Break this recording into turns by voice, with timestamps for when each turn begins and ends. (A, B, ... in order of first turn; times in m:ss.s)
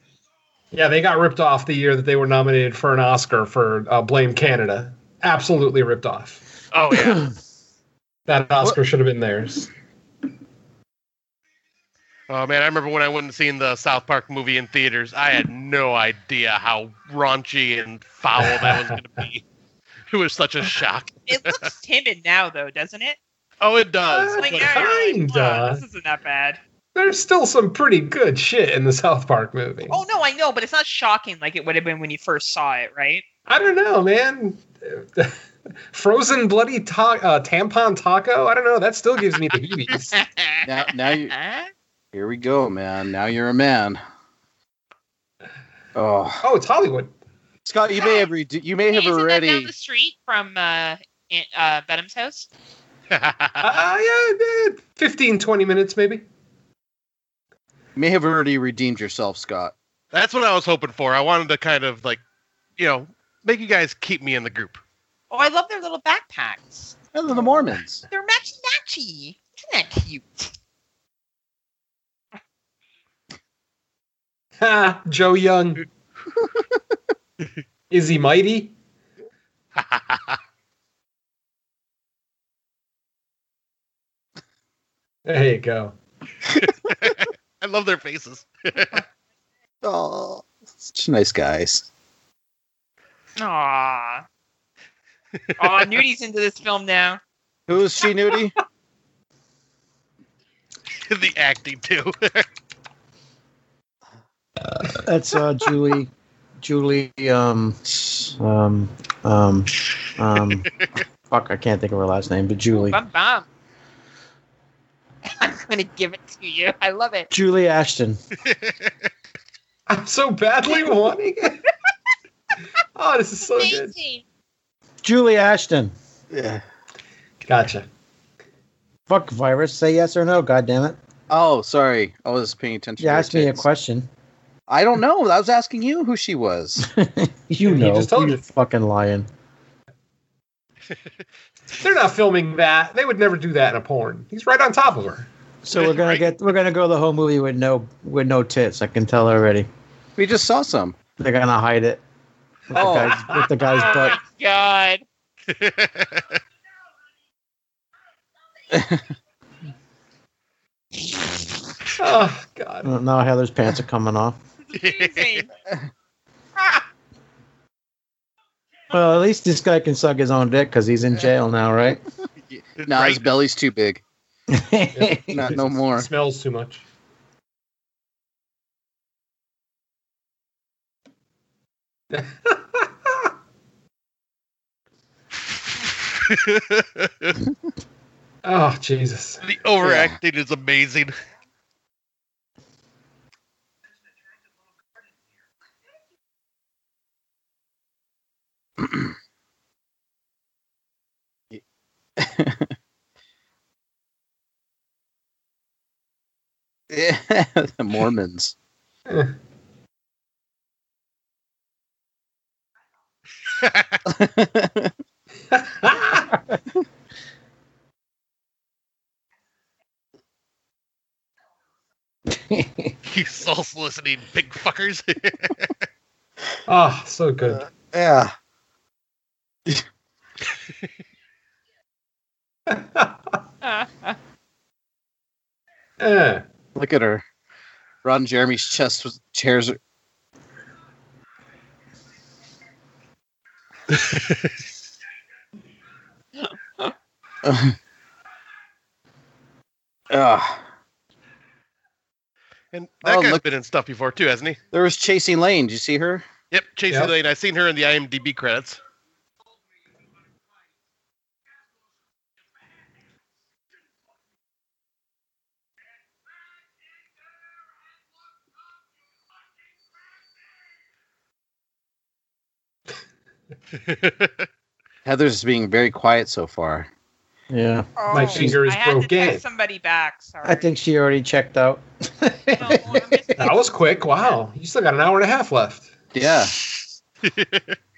0:00.7-0:06.4 A
0:06.7-0:07.3 B
0:08.3-0:09.7 A
0:12.3-0:19.4 B
0:18.4-0:18.9 A
0:20.1-0:21.6 B
0:21.3-0:23.2 C
0:23.6-0:24.9 B
0:24.1-0:25.8 A
0:24.4-0:26.6 C
0:27.0-0:30.0 A
0:29.9-0:33.2 C
0:33.5-0:35.4 A
0:35.9-0:40.2 A
0:40.1-0:41.7 C
0:40.6-0:41.4 D
0:42.1-0:44.0 D
0:46.0-0:46.5 D
0:46.4-0:47.1 A
0:47.6-0:49.7 D
0:48.0-0:48.3 C
0:48.9-0:52.5 C
0:53.1-0:53.7 B
0:53.6-0:56.2 A
0:58.0-0:59.7 D
1:00.1-1:02.2 B
1:02.8-1:04.8 B
1:05.3-1:06.9 C
1:07.1-1:08.0 D
1:08.1-1:10.5 C
1:14.6-1:15.8 A
1:17.9-1:18.8 A
1:19.8-1:20.4 B
1:25.3-1:26.0 A
1:26.6-1:29.0 B
1:29.8-1:31.9 D
1:33.4-1:34.2 C
1:35.6-1:37.2 C
1:37.7-1:38.6 D
1:41.1-1:42.5 B
1:44.6-1:45.0 A
1:45.0-1:46.1 E
1:46.6-1:47.8 E
1:47.9-1:48.3 D
1:48.3-1:50.7 E
1:51.3-1:53.0 E
1:52.7-1:53.5 C
1:55.3-1:57.3 C
1:57.3-1:58.2 E
1:58.5-1:58.9 B
1:59.9-2:01.6 A
2:03.0-2:03.9 A
2:03.6-2:04.2 C
2:05.0-2:05.9 E
2:06.3-2:06.6 D
2:07.4-2:07.9 A
2:09.1-2:11.0 E
2:11.3-2:13.7 D
2:13.0-2:14.1 E
2:14.7-2:16.9 D
2:16.8-2:19.3 E
2:17.6-2:18.4 A
2:21.7-2:25.3 A
2:25.6-2:29.7 E
2:25.7-2:26.4 B
2:30.2-2:31.0 D
2:31.2-2:32.0 E
2:32.7-2:34.2 E
2:32.7-2:33.2 D
2:32.7-2:34.1 A
2:33.8-2:35.0 C
2:35.5-2:36.4 B
2:38.7-2:39.1 D
2:42.0-2:42.9 A
2:42.8-2:44.4 E
2:44.7-2:45.5 C
2:44.7-2:45.5 B
2:48.9-2:52.0 E
2:52.5-2:54.0 D
2:52.8-2:53.3 B
2:54.5-2:55.6 E
2:55.0-2:56.8 A
2:55.2-2:56.1 D
3:02.1-3:03.1 A
3:05.8-3:07.4 B
3:08.4-3:09.4 A
3:09.4-3:11.1 B
3:09.8-3:10.2 D
3:22.2-3:22.7 D
3:26.9-3:28.5 D
3:29.1-3:29.3 A
3:33.5-3:34.0 B
3:34.0-3:34.9 D
3:35.5-3:36.3 A
3:42.3-3:42.9 E
3:43.1-3:45.7 B
3:46.7-3:47.6 A
3:47.5-3:48.3 D
3:52.7-3:53.1 A
3:53.6-3:54.2 C
3:56.0-3:56.4 A
3:56.8-3:57.2 D
3:58.0-3:59.8 D
4:03.9-4:04.4 B
4:06.4-4:06.9 C
4:07.4-4:07.8 D
4:10.1-4:10.6 D
4:12.7-4:14.6 B
4:13.0-4:13.4 D
4:14.7-4:16.3 D
4:16.5-4:18.8 B
4:33.8-4:34.5 B
4:35.0-4:36.9 D
4:37.5-4:38.6 E
4:38.0-4:40.7 C
4:38.1-4:39.4 A
4:40.4-4:43.2 E
4:42.5-4:43.7 C
4:43.4-4:45.9 A
4:46.1-4:46.6 D
4:46.8-4:47.8 B